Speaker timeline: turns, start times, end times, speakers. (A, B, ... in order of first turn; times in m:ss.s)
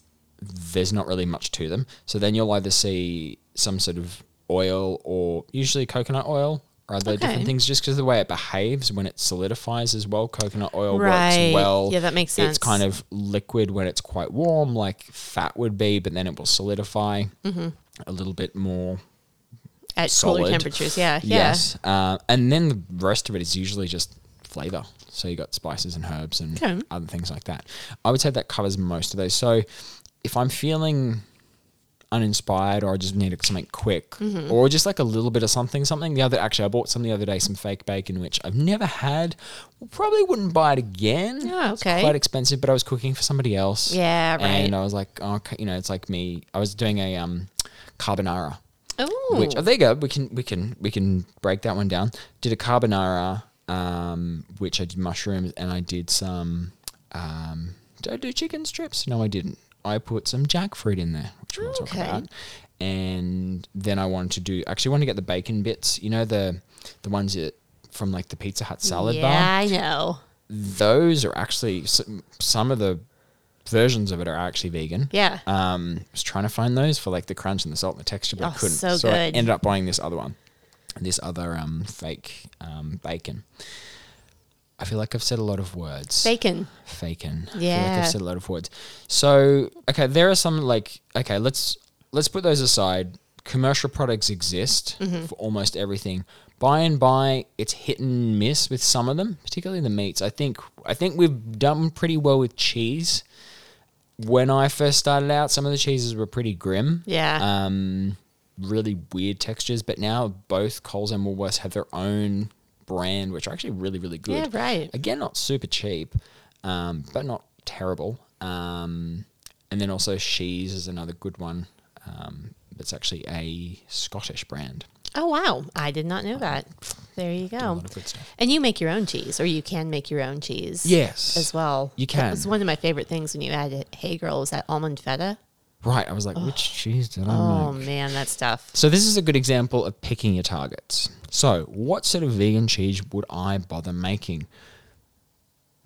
0:00.4-0:17.3 A
0:07.0-0:07.5 B
0:10.9-0:12.8 B
0:17.4-0:17.7 B
0:18.0-0:19.0 A
0:20.0-0:21.6 B
0:20.1-0:29.6 A
0:26.6-0:26.9 B
0:30.2-0:31.2 A
0:32.1-0:48.6 A
0:34.2-0:34.5 B
0:41.4-0:42.1 B
0:43.9-0:44.7 B
0:49.0-0:49.6 B
0:49.3-1:02.3 A
1:01.6-1:02.2 B
1:02.8-1:09.5 A
1:08.8-1:10.2 B
1:10.5-1:13.0 A
1:13.6-1:20.4 A
1:15.1-1:15.4 B
1:18.4-1:19.5 B
1:21.0-1:23.6 A
1:24.8-1:43.2 A
1:26.2-1:26.7 B
1:27.5-1:28.1 B
1:35.0-1:35.3 B
1:44.2-2:04.9 A
1:47.1-1:47.4 B
1:54.3-1:54.9 B
2:05.1-2:15.4 B
2:06.4-2:06.8 A
2:07.4-2:08.3 A
2:10.8-2:12.5 A
2:15.8-2:17.9 A
2:16.4-2:16.7 B
2:17.3-2:18.7 B
2:18.7-2:24.5 A